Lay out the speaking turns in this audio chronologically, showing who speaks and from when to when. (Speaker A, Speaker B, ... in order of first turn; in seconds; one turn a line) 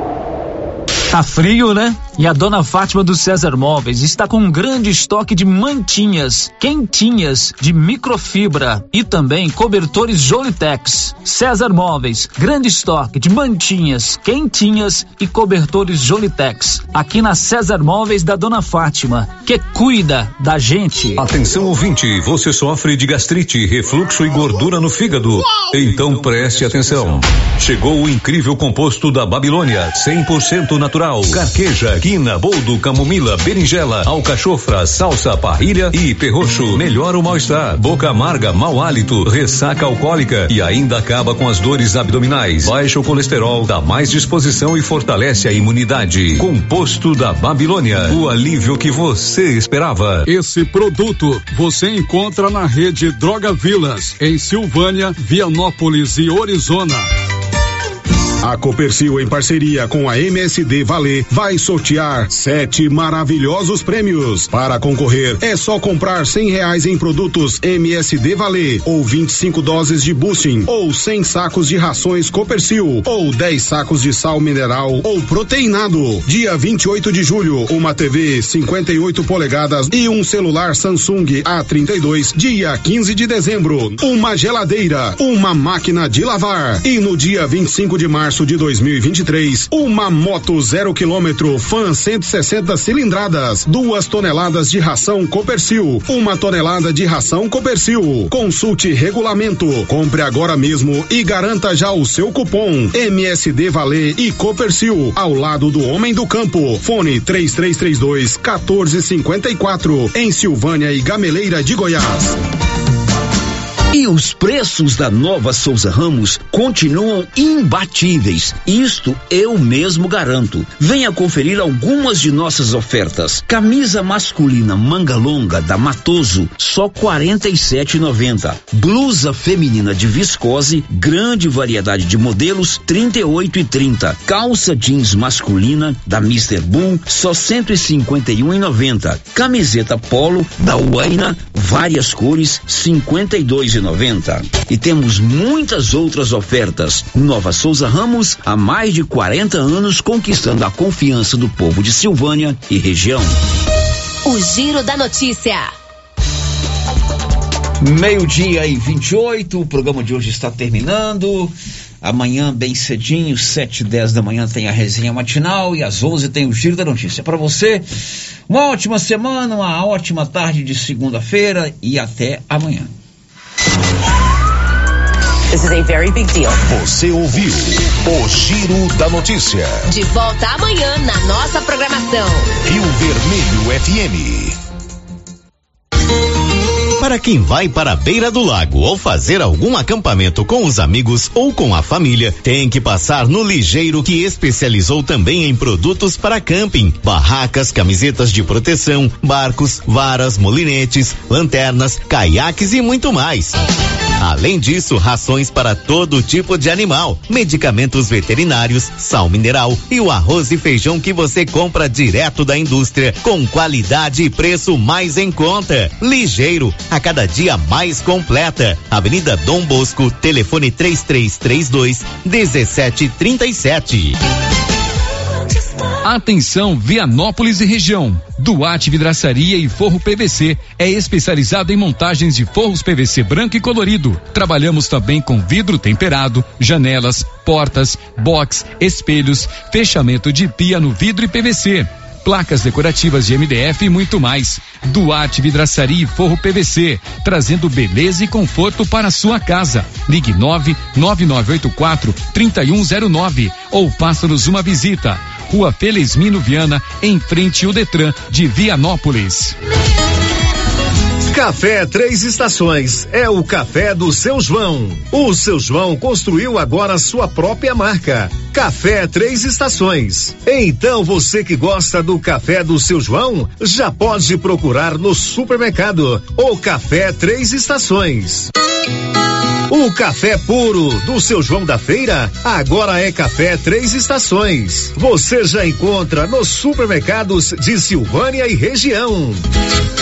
Speaker A: 1.1-21.3
Speaker B: 21.2-50.3
Speaker C: 50.2-57.1
Speaker D: 58.4-112.3
Speaker E: 113.9-153.3
Speaker F: 154.2-155.7
Speaker E: 157.8-167.8
Speaker E: 168.5-172.9
Speaker F: 175.5-176.6
Speaker G: 176.7-179.8
Speaker F: 179.9-182.5
Speaker G: 182.6-184.6
Speaker H: 187.0-203.6
Speaker H: 204.2-224.2
Speaker I: 226.0-259.5
Speaker J: 261.3-278.5
Speaker J: 279.7-289.4